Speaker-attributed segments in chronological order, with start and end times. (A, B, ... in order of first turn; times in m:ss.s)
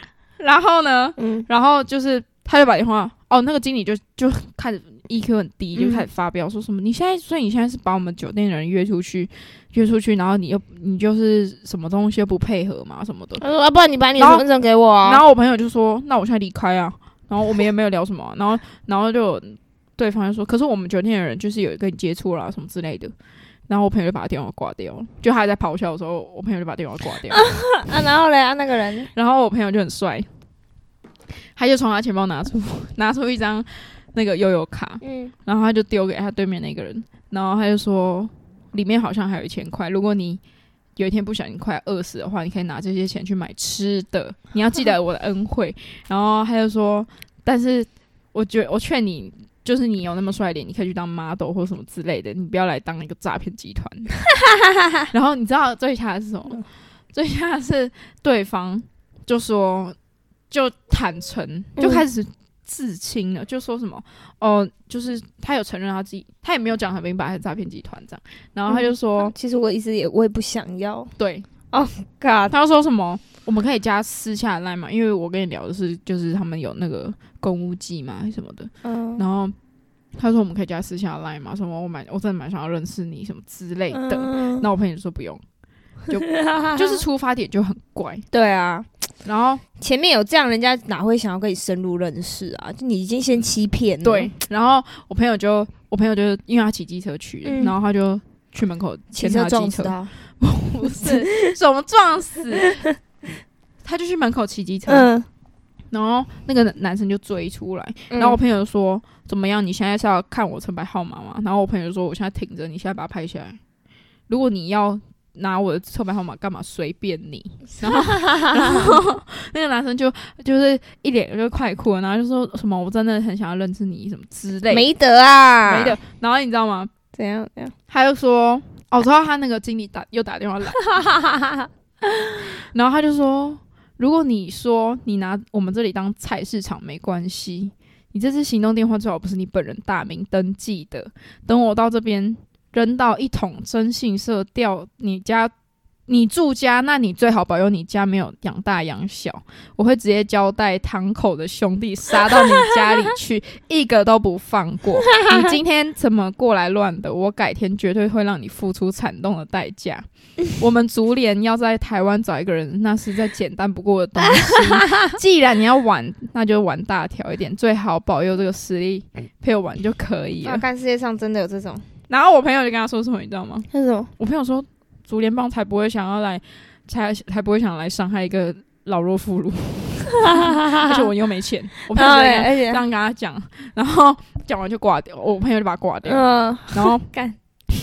0:00.4-0:13.4 A
0:01.2-0:01.4 B
0:05.7-0:06.1 B
0:13.4-0:15.2 B
0:14.2-0:14.4 A
0:15.0-0:23.1 A
0:23.7-0:27.5 A
0:27.3-0:29.1 B
0:29.1-0:30.3 A
0:31.6-0:40.4 A
0:35.0-0:35.3 B
0:41.0-0:54.1 A
0:55.1-1:00.0 A
1:00.5-1:09.3 A
1:01.8-1:02.0 B
1:08.7-1:11.1 B
1:11.2-1:11.5 A
1:11.7-1:12.5 B
1:12.5-1:19.6 A
1:18.8-1:19.2 B
1:20.2-1:25.4 A
1:23.9-1:24.7 B
1:26.1-1:28.2 A
1:26.2-1:27.0 B
1:28.3-1:28.9 B
1:29.2-1:29.6 A
1:29.8-1:34.3 B
1:34.0-1:42.8 A
1:37.4-1:37.7 B
1:39.1-1:40.1 B
1:41.0-1:41.5 B
1:43.8-1:45.1 A
1:44.9-1:45.3 B
1:45.9-1:53.6 A
1:48.1-1:48.4 B
1:54.3-2:04.9 A
1:57.8-1:58.8 B
2:04.7-2:06.0 B
2:05.6-2:06.9 A
2:07.1-2:07.7 B
2:07.9-2:10.8 A
2:10.8-2:11.7 B
2:12.6-2:25.5 A
2:26.1-2:40.0 A
2:35.2-2:35.5 B
2:40.6-2:50.6 A
2:44.4-2:45.1 B
2:50.4-2:51.8 B
2:52.1-2:53.7 A
2:53.7-2:54.1 B
2:54.2-3:07.1 A
3:00.2-3:00.9 B
3:01.9-3:02.8 B
3:06.0-3:07.4 B